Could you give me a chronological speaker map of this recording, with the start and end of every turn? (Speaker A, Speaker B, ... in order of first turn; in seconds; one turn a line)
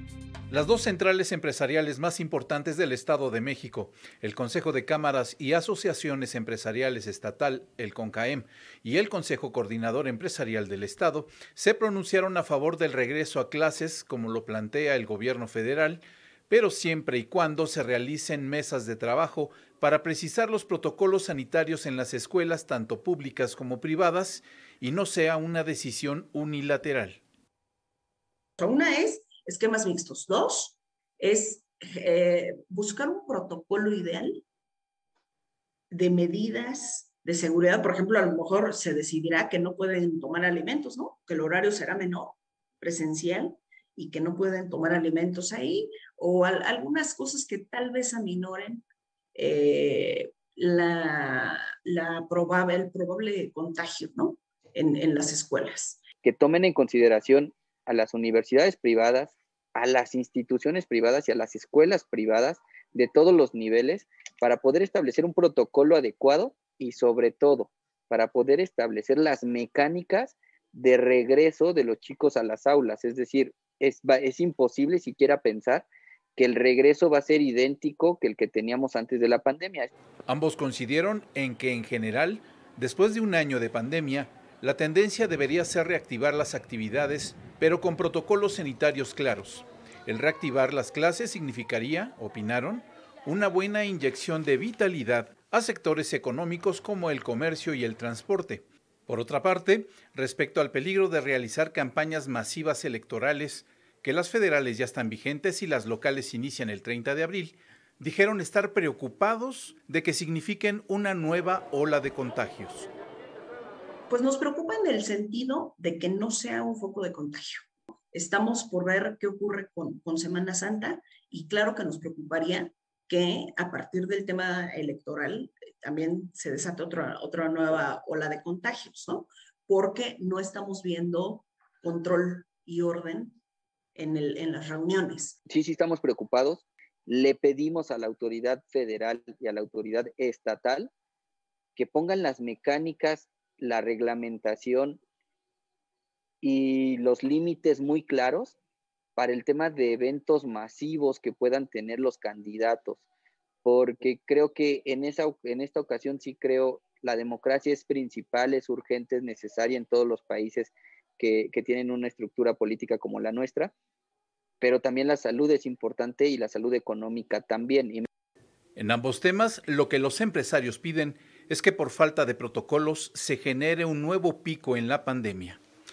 Speaker A: 0.5-27.2
Speaker B: 28.6-34.4
Speaker B: 35.9-48.8
Speaker B: 49.4-56.0
Speaker C: 56.2-79.9
Speaker A: 80.3-112.9
Speaker B: 114.1-133.4
Speaker B: 133.9-135.4
Speaker C: 135.5-140.9
Speaker C: 141.8-145.0
Speaker C: 146.4-148.6
Speaker C: 149.2-153.1
Speaker C: 153.6-163.7
Speaker C: 164.6-168.1
Speaker A: 168.8-175.6